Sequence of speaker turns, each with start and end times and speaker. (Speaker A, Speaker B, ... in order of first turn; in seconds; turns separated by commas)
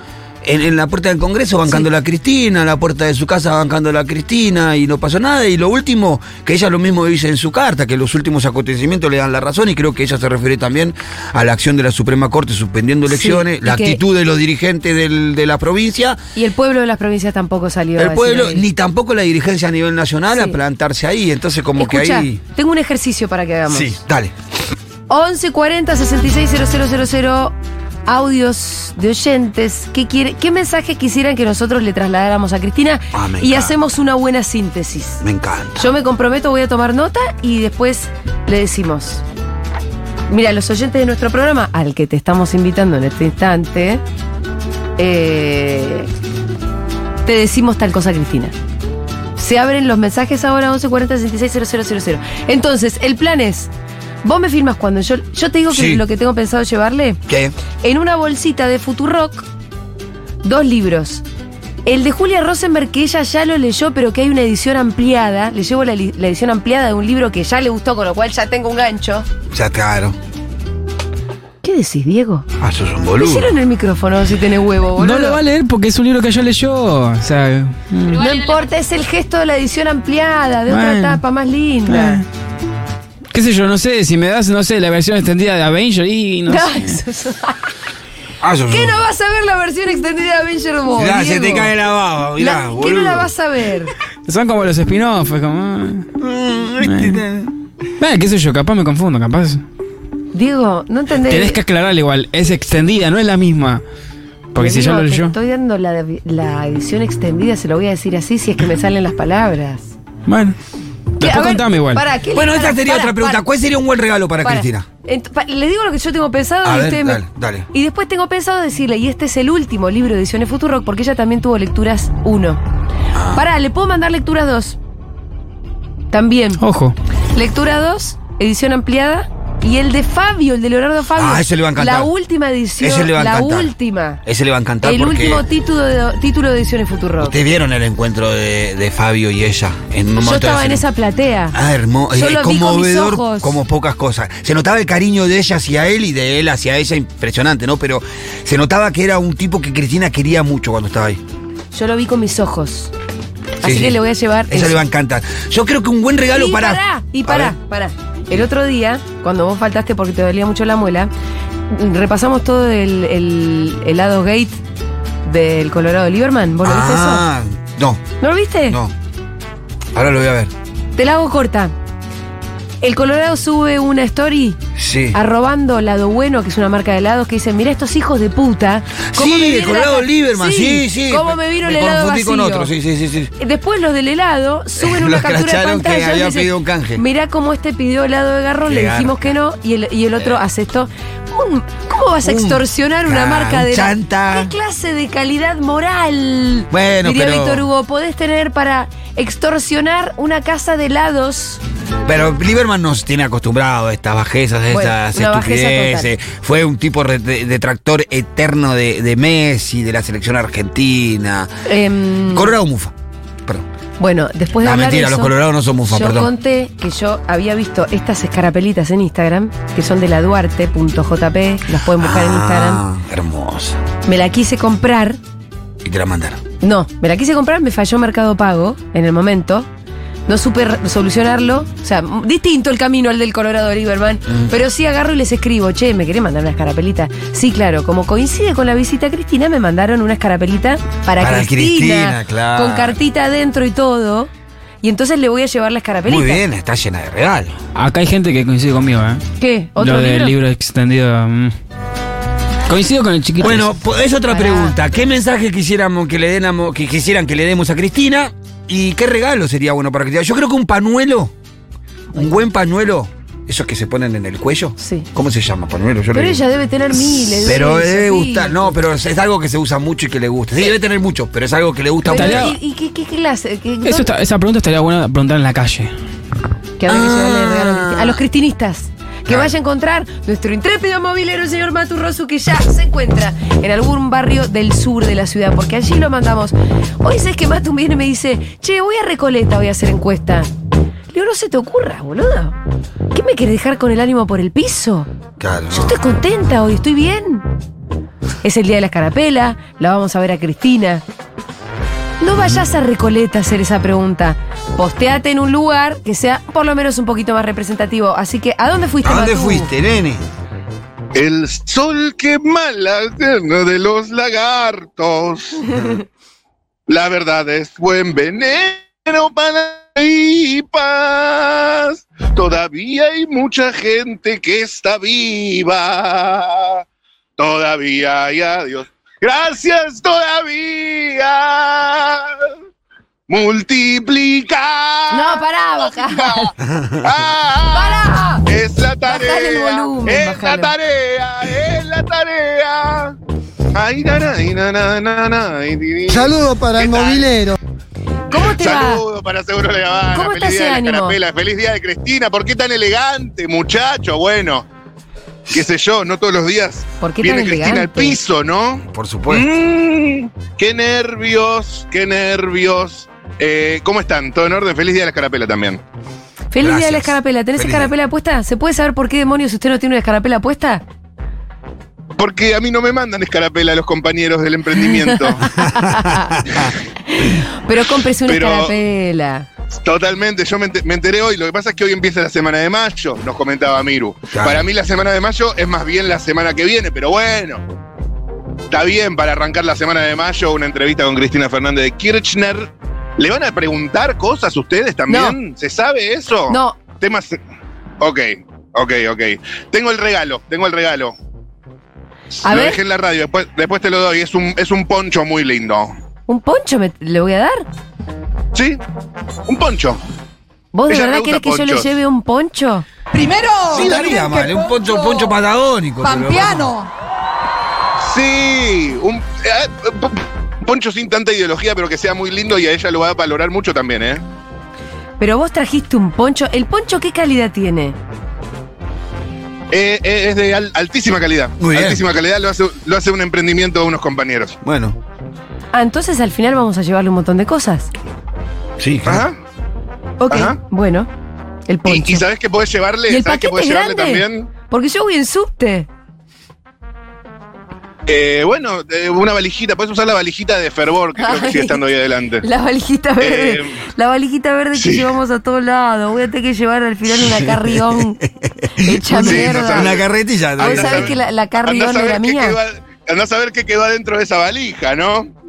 Speaker A: 0.4-16.2, Speaker B: 13.1-14.0, Speaker B: 16.4-18.7, Speaker A: 18.0-22.4, Speaker B: 21.8-24.0, Speaker A: 23.7-24.3, Speaker B: 25.1-27.6, Speaker B: 28.1-35.2, Speaker A: 33.1-33.8, Speaker A: 35.2-35.9, Speaker B: 35.8-39.2, Speaker B: 40.3-44.0, Speaker B: 45.0-46.1, Speaker B: 47.2-48.5, Speaker B: 49.4-53.7, Speaker B: 54.2-57.2, Speaker A: 55.7-56.0, Speaker A: 57.3-57.5, Speaker B: 57.8-59.5, Speaker B: 60.4-61.2, Speaker B: 61.9-69.3, Speaker A: 69.5-70.2, Speaker B: 71.6-72.5, Speaker A: 72.6-73.5, Speaker B: 73.2-75.4, Speaker C: 75.0-78.3, Speaker B: 78.1-82.2, Speaker C: 80.7-81.2, Speaker C: 81.9-82.3, Speaker C: 83.3-87.0, Speaker B: 86.5-87.6, Speaker A: 88.4-89.0, Speaker B: 88.7-91.7, Speaker A: 91.0-93.3, Speaker B: 92.4-94.0, Speaker C: 94.3-96.1, Speaker A: 96.2-97.5, Speaker C: 96.8-97.2, Speaker C: 98.0-99.6, Speaker B: 100.3-101.6, Speaker C: 101.2-103.8, Speaker C: 104.5-105.3, Speaker B: 104.6-110.0, Speaker C: 110.3-110.6, Speaker C: 111.2-112.0, Speaker B: 111.2-113.4, Speaker A: 112.3-114.9, Speaker B: 114.4-122.6, Speaker A: 116.6-117.7, Speaker A: 123.1-123.5, Speaker B: 123.3-124.8, Speaker B: 126.1-126.6, Speaker C: 126.6-127.0, Speaker B: 127.3-134.2, Speaker A: 131.2-132.1, Speaker A: 132.8-133.7, Speaker A: 134.2-135.4, Speaker B: 134.8-137.4, Speaker A: 137.2-140.8, Speaker B: 140.2-141.6, Speaker A: 141.5-151.2, Speaker B: 142.1-143.6, Speaker B: 151.7-152.9, Speaker B: 153.6-154.8, Speaker A: 153.6-154.0, Speaker A: 154.5-157.5, Speaker B: 156.3-161.1, Speaker B: 161.7-164.6, Speaker B: 165.2-167.3, Speaker A: 166.6-168.0, Speaker B: 168.2-168.8, Speaker A: 169.9-170.5, Speaker B: 171.0-171.7, Speaker B: 172.8-174.6, Speaker A: 174.8-175.2, Speaker B: 175.1-182.7, Speaker A: 179.1-183.3, Speaker B: 183.4-201.6, Speaker A: 184.8-187.0, Speaker A: 188.7-189.3, Speaker A: 192.2-194.5, Speaker A: 196.7-197.7, Speaker A: 202.1-211.5, Speaker B: 204.7-206.1, Speaker B: 211.7-212.5, Speaker A: 212.3-212.9, Speaker B: 214.0-215.3, Speaker A: 214.6-216.3, Speaker B: 215.8-222.8, Speaker A: 222.0-223.8, Speaker B: 224.1-225.2, Speaker A: 225.8-226.4, Speaker B: 226.6-229.7, Speaker B: 230.3-244.3, Speaker A: 234.3-234.6, Speaker A: 241.2-243.0, Speaker B: 244.8-246.4, Speaker A: 246.1-247.6, Speaker C: 247.8-249.2, Speaker B: 249.4-250.3, Speaker C: 249.8-251.5, Speaker C: 252.7-253.7, Speaker A: 253.4-261.3, Speaker B: 254.3-254.8, Speaker B: 262.1-262.4, Speaker A: 262.1-266.4, Speaker B: 264.8-265.1, Speaker B: 266.1-268.8, Speaker A: 267.1-272.5, Speaker B: 272.1-274.1, Speaker C: 272.1-272.6, Speaker C: 273.8-275.9, Speaker B: 276.8-290.5, Speaker A: 276.9-278.2, Speaker B: 291.1-292.6, Speaker B: 293.1-295.1, Speaker A: 295.4-296.0, Speaker B: 295.7-297.5, Speaker B: 298.4-301.0, Speaker B: 302.2-309.7, Speaker A: 309.0-310.2, Speaker D: 311.1-315.7, Speaker D: 316.9-326.8, Speaker D: 327.4-332.4, Speaker D: 333.3-343.2, Speaker B: 335.1-336.5, Speaker A: 336.7-337.0, Speaker B: 337.7-338.5, Speaker B: 339.1-340.7, Speaker D: 343.7-347.4, Speaker A: 346.2-347.6, Speaker B: 348.3-349.0, Speaker D: 348.3-354.7, Speaker B: 350.1-351.2, Speaker D: 355.5-365.8, Speaker B: 357.0-358.2, Speaker A: 358.8-359.5, Speaker B: 366.5-370.8, Speaker A: 366.6-367.9, Speaker D: 372.2-375.4, Speaker B: 375.4-376.4, Speaker A: 375.5-376.7, Speaker B: 377.1-379.5, Speaker D: 378.2-378.8, Speaker D: 379.8-387.6, Speaker A: 384.3-384.7, Speaker D: 388.7-397.4, Speaker B: 395.1-395.4, Speaker B: 396.5-396.8, Speaker D: 398.0-401.1, Speaker B: 402.4-402.8, Speaker D: 402.5-405.9, Speaker B: 406.3-407.7, Speaker D: 408.5-408.8, Speaker D: 409.5-410.0, Speaker B: 410.7-412.9, Speaker D: 410.9-411.9, Speaker E: 413.1-415.4, Speaker A: 413.7-416.7, Speaker D: 413.7-414.1, Speaker E: 416.0-416.9, Speaker D: 418.0-424.2, Speaker B: 425.2-428.0, Speaker D: 429.7-434.6, Speaker A: 431.6-432.0, Speaker A: 434.6-435.0, Speaker B: 435.7-437.9, Speaker A: 438.8-439.3, Speaker D: 439.1-439.4, Speaker B: 440.2-441.1, Speaker D: 440.3-440.6, Speaker B: 441.7-442.2, Speaker D: 441.9-444.5, Speaker B: 443.1-445.9, Speaker D: 448.1-452.5, Speaker B: 451.2-451.8, Speaker B: 452.4-458.2, Speaker D: 453.2-453.8, Speaker D: 454.7-455.1, Speaker A: 457.2-461.1, Speaker B: 458.8-460.0, Speaker D: 459.2-460.1, Speaker D: 460.6-465.3, Speaker B: 460.6-462.6